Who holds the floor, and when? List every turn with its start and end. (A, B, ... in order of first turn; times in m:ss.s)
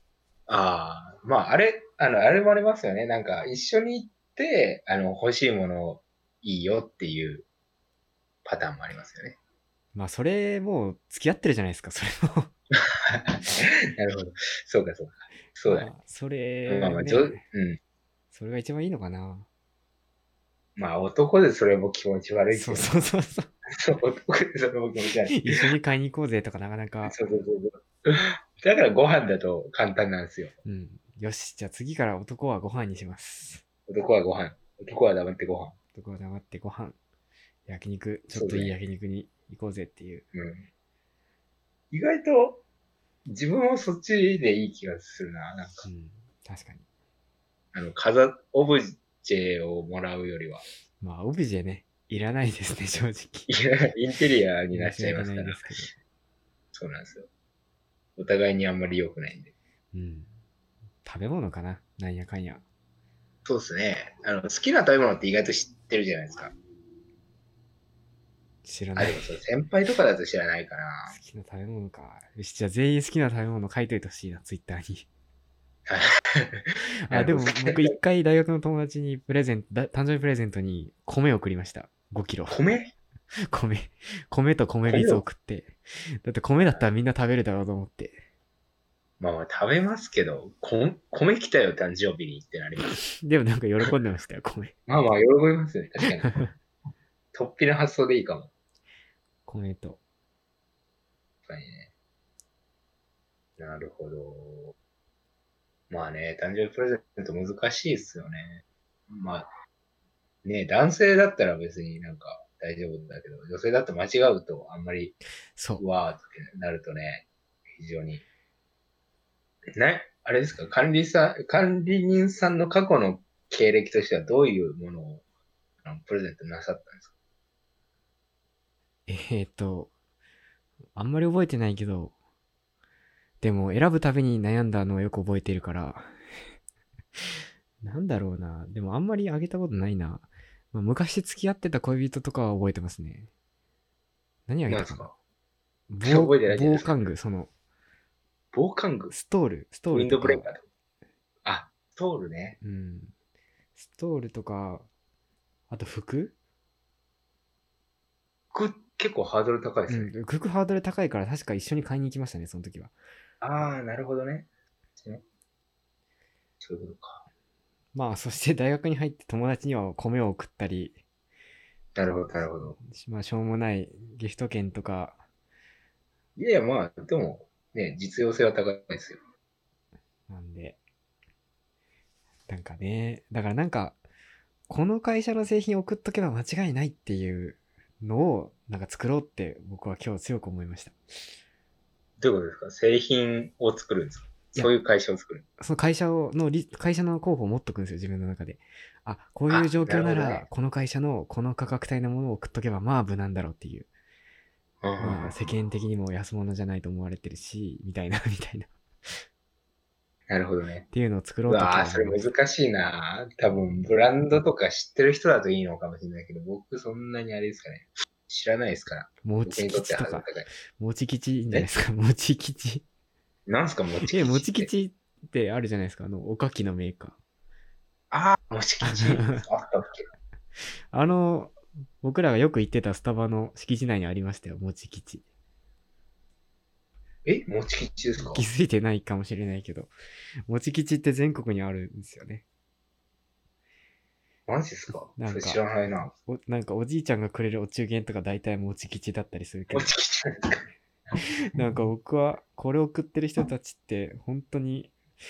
0:00.5-0:07.5 A
0:08.4-0:09.4 A
0:10.0-0:12.5 B
0:12.9-0:15.9 A
0:15.7-0:17.4 B
0:16.7-0:17.8 A
0:18.3-0:19.5 B
0:20.8-0:22.9 A
0:22.5-0:23.5 B
0:23.7-0:25.7 A
0:25.3-0:27.2 B
0:27.1-0:30.6 A
0:30.6-0:33.6 B
0:33.9-0:35.8 A
0:35.9-0:37.0 B
0:37.7-0:40.3 B
0:38.3-0:38.8 A
0:40.3-0:40.7 A
0:41.9-0:42.6 A
0:43.3-0:45.8 A
0:45.8-0:46.8 B
0:47.7-0:50.6 A
0:51.0-0:53.5 B
0:53.5-0:55.7 A
0:54.7-0:55.9 B
0:56.7-0:57.3 A
0:58.2-0:59.5 A
0:59.9-1:00.3 B
1:01.0-1:02.6 B
1:03.4-1:06.5 A
1:08.6-1:09.3 B
1:09.0-1:11.2 A
1:11.1-1:15.1 B
1:15.9-1:17.9 A
1:17.1-1:22.6 B
1:22.5-1:22.9 A
1:23.5-1:28.2 B
1:24.9-1:25.2 A
1:29.2-1:33.0 A
1:32.9-1:34.7 B
1:34.9-1:36.4 A
1:37.3-1:38.5 A
1:39.5-1:40.0 B
1:41.5-1:41.9 A
1:43.6-1:44.8 A
1:45.9-1:49.5 A
1:50.4-1:55.2 A
1:55.6-1:55.8 B
1:55.8-1:58.2 A
1:59.8-2:05.2 A
2:05.8-2:07.1 A
2:09.1-2:09.9 B
2:11.0-2:12.1 B
2:13.4-2:16.1 B
2:17.8-2:23.3 B
2:24.5-2:25.1 B
2:24.7-2:25.2 A
2:25.9-2:27.5 B
2:26.0-2:26.9 A
2:28.5-2:29.1 A
2:29.1-2:30.5 B
2:29.9-2:30.6 A
2:31.4-2:32.6 A
2:32.6-2:33.1 B
2:33.8-2:34.9 B
2:35.7-2:36.4 B
2:38.5-2:40.1 A
2:39.9-2:42.9 B
2:43.4-2:44.5 A
2:46.6-2:47.2 A
2:48.0-2:51.0 B
2:52.0-2:52.8 A
2:52.8-2:55.2 B
2:56.4-2:59.2 A
3:00.3-3:00.8 B
3:02.5-3:04.0 B
3:04.7-3:11.0 B
3:12.2-3:15.4 A
3:15.6-3:23.9 B
3:19.5-3:20.5 A
3:24.8-3:25.4 A
3:25.0-3:29.2 B
3:30.3-3:30.9 A
3:30.9-3:32.3 B
3:31.5-3:40.5 A
3:39.2-3:42.8 B
3:43.5-3:44.7 A
3:44.0-3:47.2 B
3:48.1-3:50.1 A
3:48.8-3:49.4 B
3:50.9-3:55.2 B
3:57.2-3:58.4 A
3:58.2-3:59.9 B
4:00.5-4:02.4 B
4:04.5-4:06.1 A
4:05.2-4:05.6 B
4:06.2-4:09.9 B
4:09.7-4:10.7 A
4:11.2-4:15.0 B